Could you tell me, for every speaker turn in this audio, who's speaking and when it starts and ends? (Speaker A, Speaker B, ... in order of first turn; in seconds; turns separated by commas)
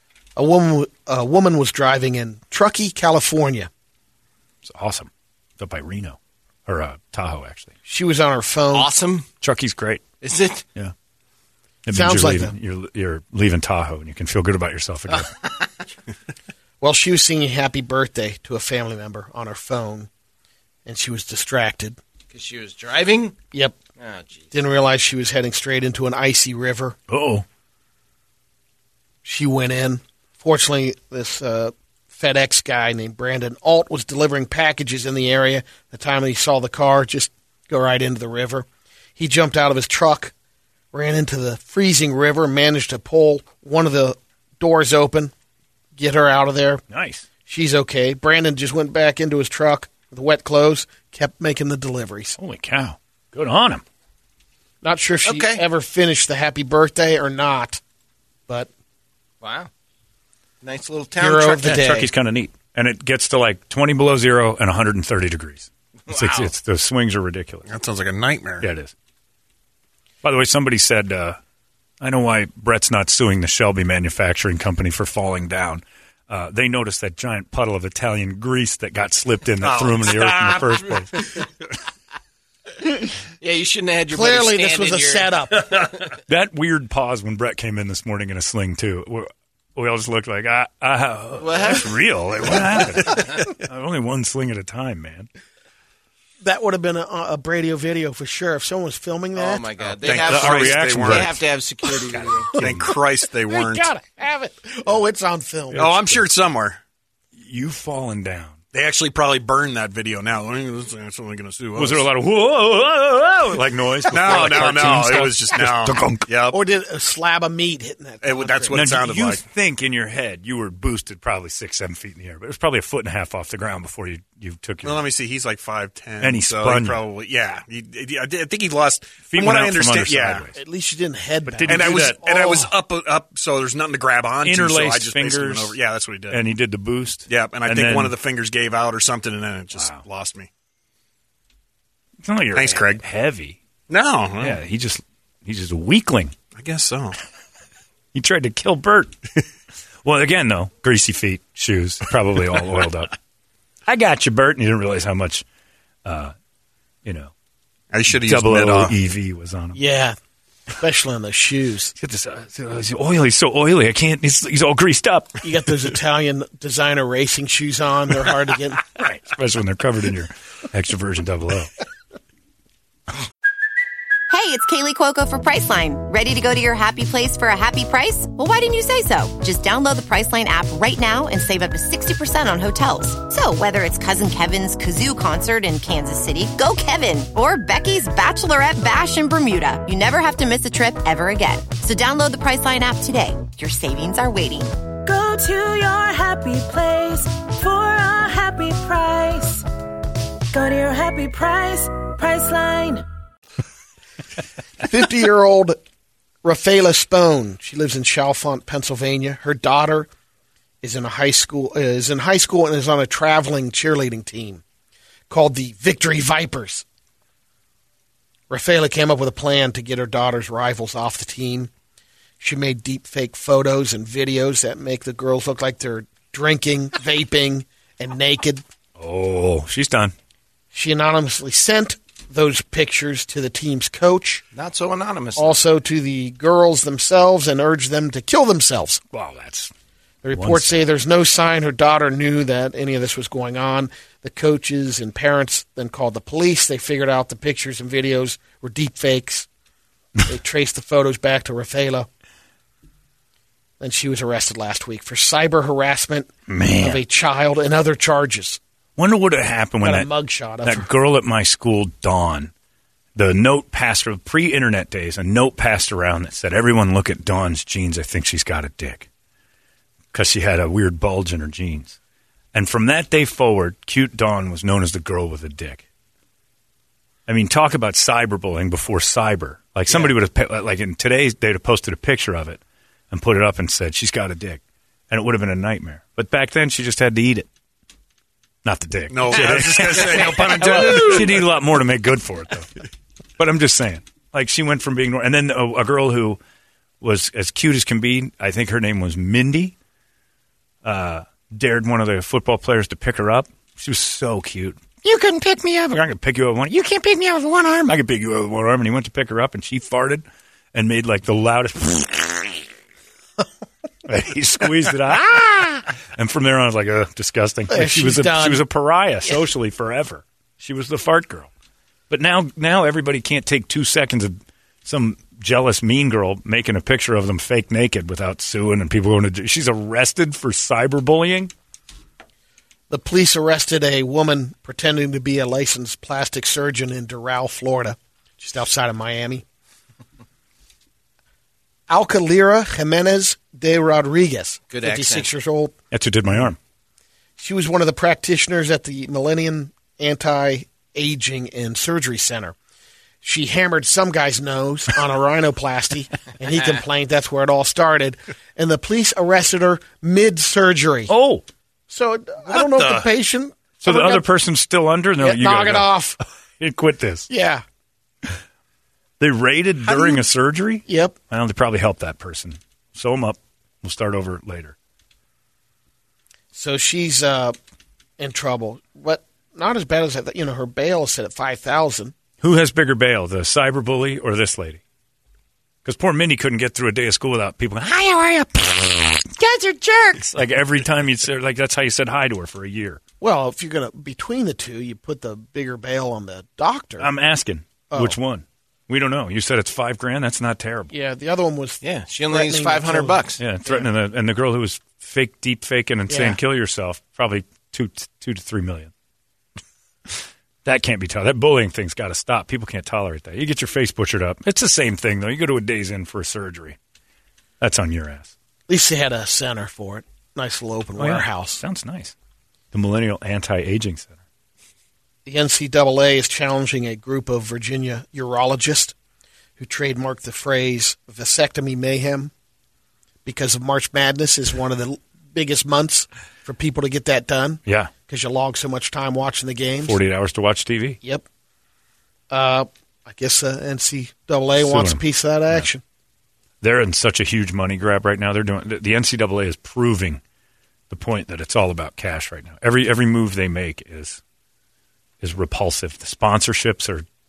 Speaker A: 0.4-3.7, Speaker B: 4.6-7.7, Speaker A: 7.9-8.9, Speaker C: 8.7-9.3, Speaker B: 9.4-10.0, Speaker C: 10.2-10.7, Speaker B: 11.9-15.3, Speaker A: 11.9-12.5, Speaker A: 16.8-20.1, Speaker A: 20.9-22.0, Speaker C: 22.3-23.4, Speaker A: 23.5-23.8, Speaker C: 24.0-24.5, Speaker A: 24.5-27.0, Speaker B: 27.1-27.4, Speaker A: 29.2-40.3, Speaker A: 40.9-45.3, Speaker A: 46.0-46.8, Speaker B: 46.9-47.3, Speaker A: 47.5-52.4, Speaker B: 52.4-53.8, Speaker A: 54.8-57.8, Speaker C: 55.2-55.6, Speaker C: 59.4-59.7, Speaker C: 60.6-61.8, Speaker A: 61.2-62.1, Speaker B: 61.6-67.7, Speaker C: 66.1-66.5, Speaker D: 67.7-68.7, Speaker B: 68.6-68.9, Speaker B: 70.2-71.4, Speaker B: 72.0-81.2, Speaker D: 79.6-80.5, Speaker C: 83.4-86.2, Speaker A: 84.1-85.7, Speaker B: 86.3-95.3, Speaker C: 91.4-91.9, Speaker C: 93.1-93.4, Speaker A: 96.4-99.7, Speaker C: 99.4-102.6, Speaker D: 99.8-101.4, Speaker B: 100.1-101.4, Speaker B: 102.1-102.9, Speaker A: 102.5-106.0, Speaker D: 102.6-103.9, Speaker B: 105.7-106.3, Speaker D: 105.7-106.8, Speaker B: 107.4-108.6, Speaker D: 108.7-112.1, Speaker B: 111.8-116.3, Speaker D: 114.1-116.6, Speaker A: 116.5-118.8, Speaker D: 118.2-119.4, Speaker B: 118.7-125.1, Speaker D: 124.8-130.5, Speaker B: 126.2-127.0, Speaker B: 129.3-130.6, Speaker A: 130.5-132.7, Speaker B: 131.4-132.3, Speaker D: 131.7-136.4, Speaker B: 134.4-135.8, Speaker B: 136.3-138.2, Speaker D: 137.3-140.5, Speaker B: 139.8-140.0, Speaker B: 142.2-143.6, Speaker D: 142.6-143.0, Speaker D: 143.9-144.6, Speaker B: 144.4-146.3, Speaker D: 146.6-147.2, Speaker B: 148.1-149.2, Speaker B: 150.0-153.1, Speaker B: 153.9-155.4, Speaker B: 156.1-156.3, Speaker B: 157.1-157.3, Speaker D: 157.9-159.0, Speaker B: 158.1-159.8, Speaker A: 159.8-160.2, Speaker A: 160.7-161.9, Speaker B: 162.0-165.4, Speaker A: 165.4-168.8, Speaker B: 168.9-171.7, Speaker E: 174.3-194.7, Speaker F: 195.1-199.7, Speaker F: 200.5-203.1, Speaker A: 204.8-205.8, Speaker A: 206.4-210.1, Speaker A: 210.8-214.6, Speaker A: 215.3-216.8, Speaker A: 218.5-221.7, Speaker A: 222.4-228.6, Speaker B: 229.0-230.1, Speaker A: 230.7-234.4, Speaker C: 234.5-235.6, Speaker A: 235.4-239.0, Speaker B: 239.1-239.7, Speaker A: 240.2-249.5, Speaker B: 240.3-240.8, Speaker A: 250.2-252.1, Speaker A: 253.8-258.6, Speaker B: 256.5-257.0, Speaker B: 259.0-260.1, Speaker A: 259.8-260.9, Speaker B: 260.6-262.5, Speaker B: 263.1-269.1, Speaker B: 270.1-272.0, Speaker B: 272.5-275.8, Speaker B: 277.3-282.6, Speaker B: 283.1-287.5, Speaker B: 288.6-292.7, Speaker D: 289.1-291.5, Speaker B: 293.4-296.4, Speaker B: 297.0-299.8, Speaker B: 300.8-312.6, Speaker B: 314.1-321.5, Speaker A: 317.7-318.7, Speaker B: 322.1-331.5, Speaker A: 332.9-339.4, Speaker A: 341.9-345.7, Speaker C: 344.7-345.3, Speaker B: 345.9-346.6, Speaker A: 347.4-352.6, Speaker A: 353.2-361.1, Speaker B: 361.1-361.4, Speaker A: 361.9-364.3, Speaker B: 363.8-366.0, Speaker A: 365.2-366.2, Speaker B: 366.6-367.3, Speaker A: 367.3-367.6, Speaker B: 369.2-374.8, Speaker A: 369.9-370.2, Speaker A: 370.9-371.2, Speaker A: 376.5-377.6, Speaker A: 378.2-382.1, Speaker B: 382.4-384.8, Speaker B: 385.9-393.0, Speaker A: 393.2-397.1, Speaker B: 397.0-400.9, Speaker A: 397.9-398.2, Speaker A: 400.9-403.9, Speaker C: 401.8-403.4, Speaker B: 403.4-408.9, Speaker A: 406.1-406.4, Speaker B: 410.1-416.8, Speaker B: 417.6-418.3, Speaker A: 418.7-421.6, Speaker B: 421.0-422.1, Speaker B: 422.7-424.2, Speaker A: 425.3-428.9, Speaker A: 429.6-432.3, Speaker A: 433.2-440.0, Speaker B: 437.7-437.9, Speaker B: 439.8-441.0, Speaker A: 442.3-445.8, Speaker B: 444.6-445.7, Speaker B: 446.6-450.2, Speaker B: 450.9-454.2, Speaker B: 455.2-457.1